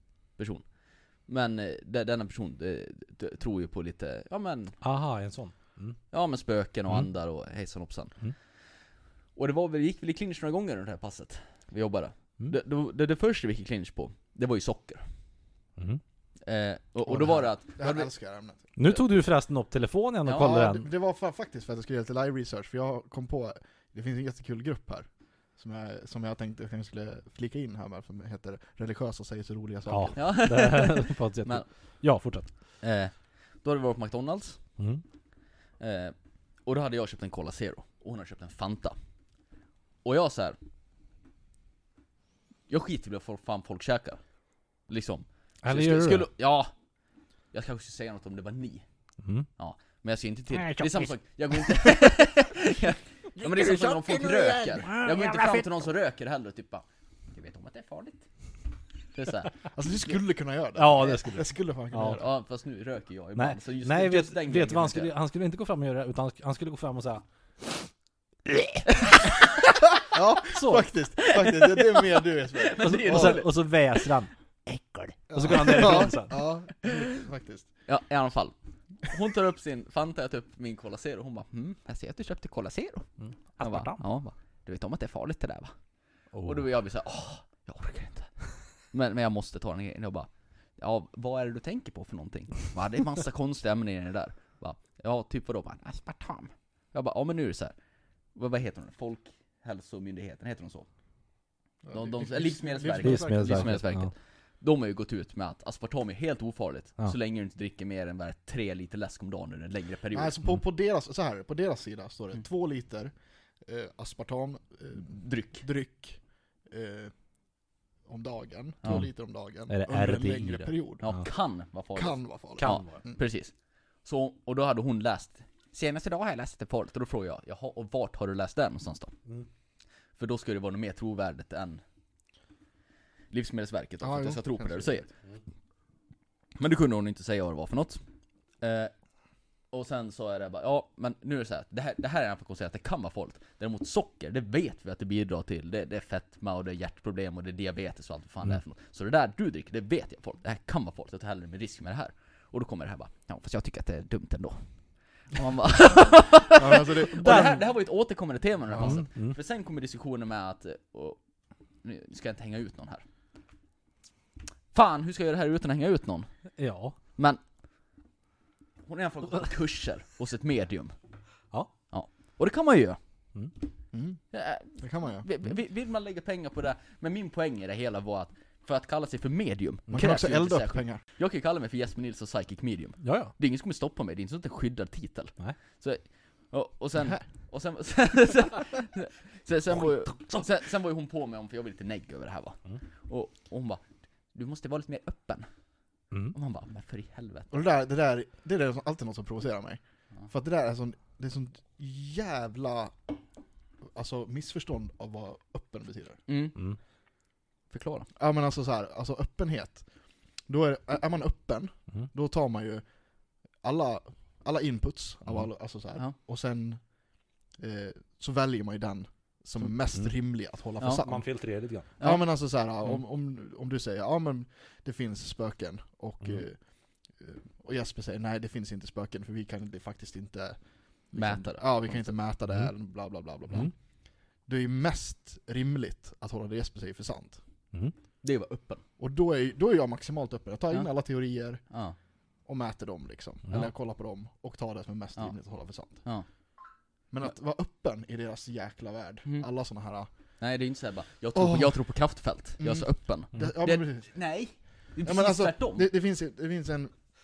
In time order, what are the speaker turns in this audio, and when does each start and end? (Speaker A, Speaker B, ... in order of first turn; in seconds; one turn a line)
Speaker A: 0.4-0.7
Speaker A: 1.3-4.8
Speaker B: 4.8-6.0
Speaker A: 6.1-8.2
Speaker A: 9.4-15.1
Speaker A: 16.4-18.1
Speaker C: 17.1-18.6
Speaker B: 18.8-20.9
Speaker A: 20.3-20.5
Speaker C: 20.4-30.3
Speaker B: 29.9-32.5
Speaker A: 30.2-31.7
Speaker A: 32.8-34.6
Speaker B: 34.8-35.0
Speaker A: 35.8-39.0
Speaker A: 40.0-40.6
Speaker A: 42.7-44.2
Speaker A: 44.9-46.7
Speaker B: 45.6-46.3
Speaker A: 47.5-48.8
Speaker A: 49.6-58.2
Speaker B: 50.5-51.1
Speaker B: 53.4-55.9
Speaker A: 59.1-59.6
Speaker C: 59.7-62.3
Speaker B: 60.8-62.2
Speaker A: 62.1-65.1
Speaker B: 63.4-67.2
Speaker B: 68.5-68.8
Speaker A: 69.2-69.5
Speaker C: 70.0-73.4
Speaker B: 70.5-70.9
Speaker A: 71.2-74.0
Speaker B: 72.8-76.4
Speaker C: 75.3-77.7
Speaker A: 75.6-76.0
Speaker A: 77.9-83.1
Speaker B: 83.2-84.0
Speaker A: 83.6-85.7
Speaker B: 86.3-86.7
Speaker A: 86.4-97.7
Speaker A: 98.3-100.9
Speaker C: 101.8-103.8
Speaker A: 101.9-110.3
Speaker B: 103.0-104.1
Speaker C: 110.1-113.1
Speaker C: 113.7-117.1
Speaker A: 115.0-115.7
Speaker C: 118.1-121.1
Speaker A: 118.8-119.1
Speaker B: 119.7-121.2
Speaker A: 121.0-123.5
Speaker C: 122.0-123.2
Speaker B: 122.6-123.0
Speaker A: 124.0-129.1
Speaker A: 130.2-131.8
Speaker A: 133.3-135.1
Speaker C: 134.0-135.1
Speaker A: 136.6-138.0
Speaker A: 138.6-138.9
Speaker A: 139.7-154.6
Speaker A: 155.3-161.2
Speaker C: 156.5-157.6
Speaker B: 157.2-157.6
Speaker C: 158.7-159.0
Speaker B: 158.8-159.4
Speaker A: 161.8-163.0
Speaker A: 164.7-166.3
Speaker B: 166.6-167.0
Speaker A: 168.9-170.9
Speaker A: 171.9-173.0
Speaker C: 173.9-174.2
Speaker A: 174.3-193.8
Speaker C: 174.8-175.3
Speaker C: 179.9-181.0
Speaker B: 183.0-183.3
Speaker B: 189.7-190.4
Speaker A: 194.3-195.5
Speaker A: 196.3-197.6
Speaker C: 197.5-203.0
Speaker C: 203.9-206.2
Speaker A: 206.3-206.6
Speaker A: 207.7-208.1
Speaker C: 208.2-209.8
Speaker C: 210.5-212.8
Speaker C: 213.6-216.9
Speaker C: 217.6-221.3
Speaker B: 221.0-221.9
Speaker A: 222.0-222.3
Speaker C: 222.0-226.6
Speaker C: 227.1-230.6
Speaker C: 231.1-233.7
Speaker A: 231.2-232.1
Speaker C: 234.4-237.4
Speaker A: 238.2-238.8
Speaker C: 239.0-241.6
Speaker A: 241.7-242.0
Speaker C: 242.5-246.0
Speaker C: 247.1-250.1
Speaker A: 250.4-255.9
Speaker C: 251.3-251.8
Speaker C: 252.6-254.1
Speaker C: 255.0-256.9